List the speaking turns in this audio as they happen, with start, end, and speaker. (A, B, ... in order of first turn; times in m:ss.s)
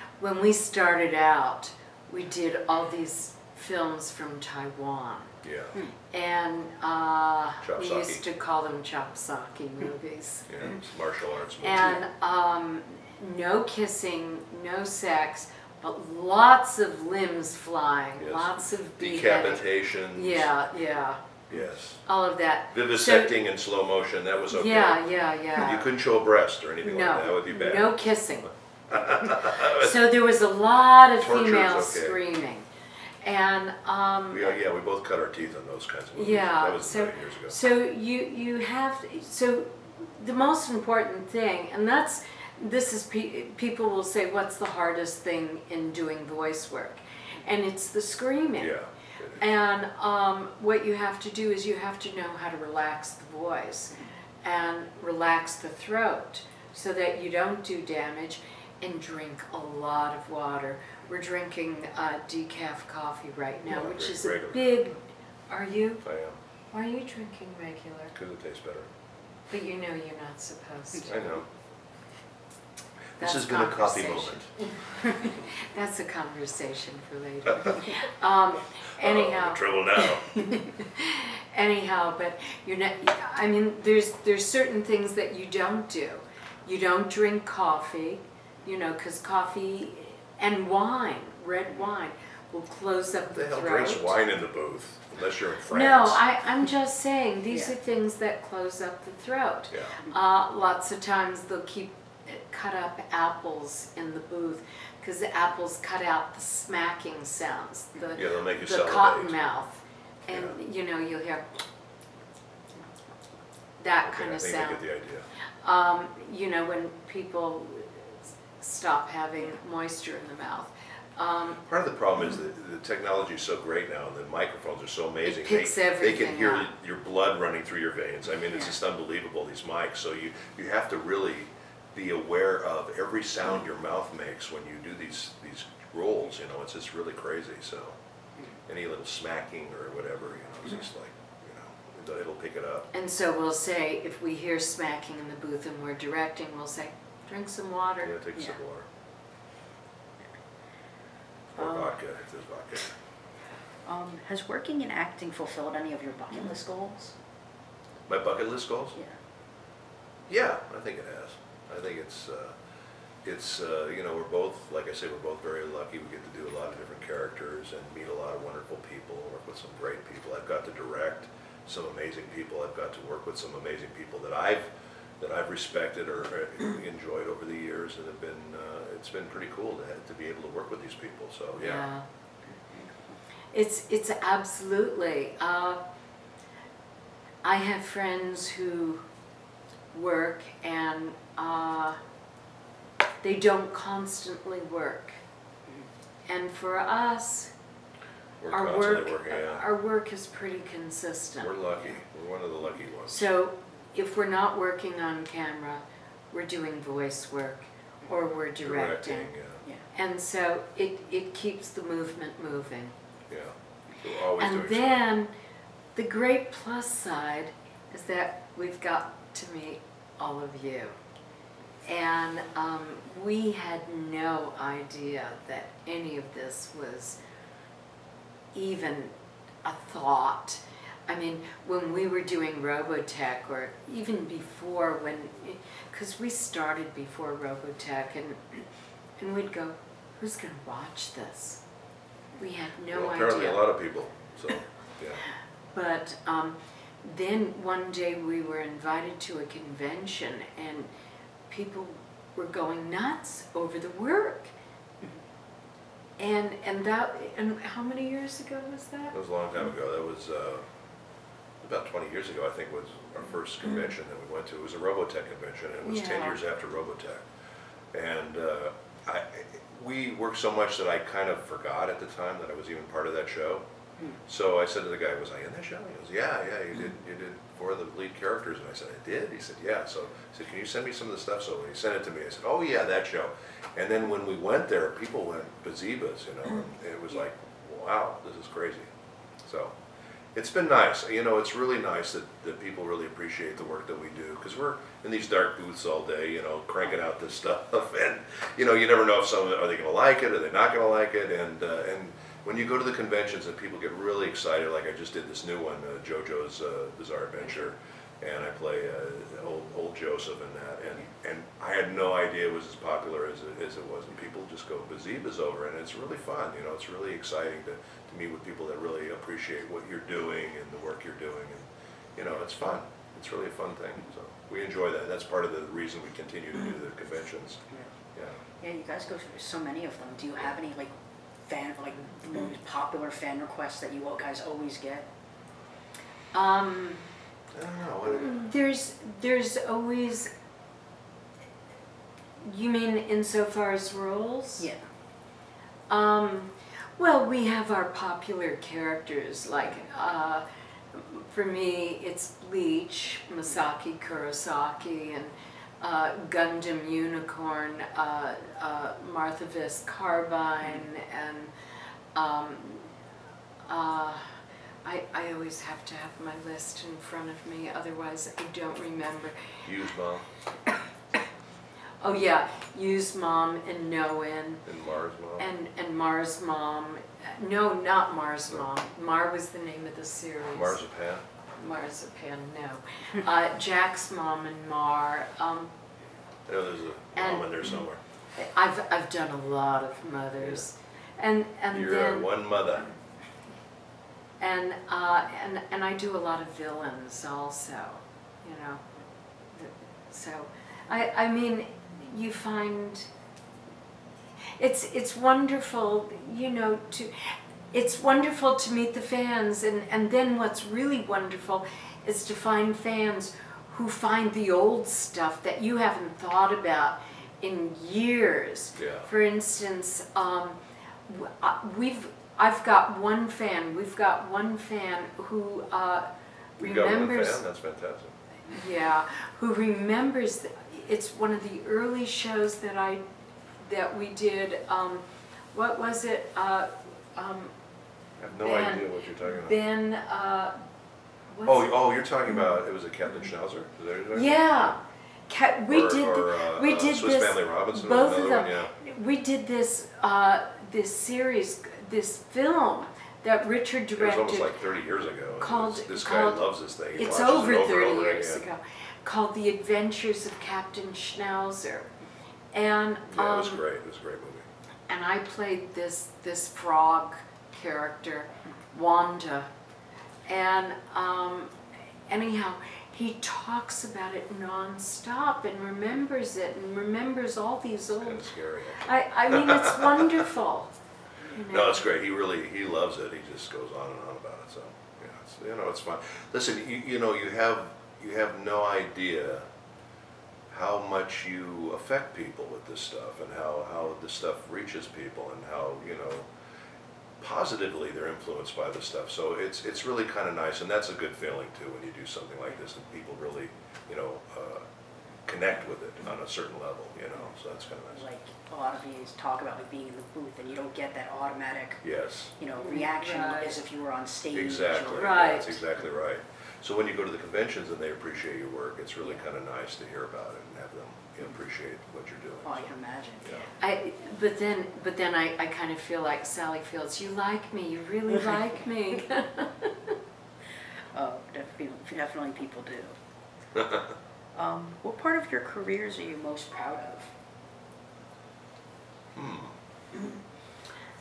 0:00.2-0:05.4 A
0:05.4-0:05.8 B
0:06.1-0:10.5 A
0:07.6-0:08.2 B
0:10.5-0:12.0 B
0:11.6-0:21.2 A
0:18.2-0:20.5 B
0:21.5-0:22.0 B
0:22.0-0:23.3 A
0:22.7-0:28.0 B
0:24.5-0:25.9 A
0:26.8-0:28.5 A
0:28.9-0:30.0 B
0:29.5-0:32.7 A
0:31.2-0:32.2 B
0:33.2-0:34.6 A
0:34.3-0:37.6 B
0:36.1-0:48.7 A
0:48.6-0:49.4 B
0:49.4-1:06.0 A
1:03.7-1:04.9 B
1:06.0-1:06.4 B
1:06.7-1:08.2 A
1:08.1-1:08.9 B
1:09.5-1:11.2 A
1:11.0-1:11.4 B
1:13.2-1:14.7 B
1:13.2-1:34.2 A
1:17.5-1:17.8 B
1:19.0-1:20.4 B
1:33.3-1:36.2 B
1:35.7-1:51.6 A
1:39.7-1:40.0 B
1:48.2-1:49.3 B
1:50.3-1:50.6 B
1:53.8-1:54.8 A
1:54.0-1:55.3 B
1:55.6-1:58.1 A
1:58.6-2:01.6 A
2:01.6-2:18.0 B
2:05.2-2:06.7 A
2:18.7-2:22.9 B
2:22.9-2:28.2 A
2:28.0-2:28.9 B
2:31.5-2:33.0 B
2:31.6-2:31.9 C
2:33.8-2:37.2 C
2:38.1-2:39.0 B
2:40.3-2:42.6 B
2:43.2-3:01.8 B
3:01.6-3:02.0 A
3:02.5-3:03.2 C
3:03.5-3:05.8 A
3:07.4-3:09.0 A
3:09.9-3:12.0 A
3:13.2-3:15.2 A
3:16.3-3:17.5 A
3:18.4-3:19.7 B
3:18.5-3:21.5 A
3:21.4-3:23.3 B
3:23.1-3:29.3 A
3:28.6-3:29.6 B
3:29.9-3:33.0 A
3:33.3-3:35.0 B
3:34.4-3:35.3 A
3:36.0-3:41.0 A
3:41.9-3:47.2 A
3:48.5-3:58.7 A
3:59.2-4:01.6 A
4:02.4-4:03.7 A
4:02.9-4:05.2 B
4:05.7-4:10.9 A
4:11.5-4:14.5 A
4:16.2-4:19.2 A
4:19.1-4:20.6 B
4:21.6-4:27.3 B
4:25.9-4:26.3 A
4:27.9-4:33.6 B
4:34.3-4:48.9 B
4:49.4-4:49.8 B
4:50.4-5:27.6 B
5:28.2-5:28.4 B
5:28.6-5:35.1 C
5:36.3-5:37.0 A
5:37.5-5:38.3 B
5:38.0-5:40.3 A
5:42.4-5:44.7 A
5:45.9-6:01.5 A
6:02.2-6:02.9 A
6:03.7-6:04.3 A
6:04.8-6:09.6 A
6:09.6-6:10.3 B
6:12.0-6:14.6 A
6:14.7-6:15.5 B
6:15.4-6:20.9 A
6:20.6-6:21.2 B
6:21.6-6:25.7 A
6:26.5-6:28.0 B
6:27.2-6:27.6 A
6:28.4-6:32.3 A
6:31.7-6:32.9 B
6:34.4-6:38.9 A
6:39.5-6:43.1 A
6:44.6-7:06.1 A
6:58.8-6:59.1 B
7:06.6-7:07.4 A
7:06.6-7:08.2 B
7:08.5-7:13.0 A
7:13.6-7:17.5 A
7:18.2-7:19.6 B
7:18.4-7:20.6 A
7:21.3-7:21.7 A
7:21.4-7:24.7 B
7:24.1-7:34.5 A
7:25.7-7:28.7 B
7:34.0-7:38.5 B
7:35.4-7:41.9 A
7:42.5-7:43.6 A
7:43.1-7:44.5 B
7:44.9-7:49.5 A
7:50.3-7:51.6 A
7:52.1-8:00.7 A
7:58.0-8:00.2 B
8:01.3-8:01.8 A
8:01.5-8:09.5 B
8:10.5-8:16.3 B
8:17.2-8:24.6 B
8:25.3-8:28.0 B
8:28.0-8:31.8 C
8:31.8-8:32.3 B
8:32.4-8:35.4 C
8:32.6-8:33.6 A
8:34.3-8:42.7 B
8:34.9-8:35.6 A
8:42.4-8:43.3 C
8:43.6-8:50.0 A
8:50.9-8:53.0 C
8:54.4-8:57.1 C
8:59.1-8:59.6 B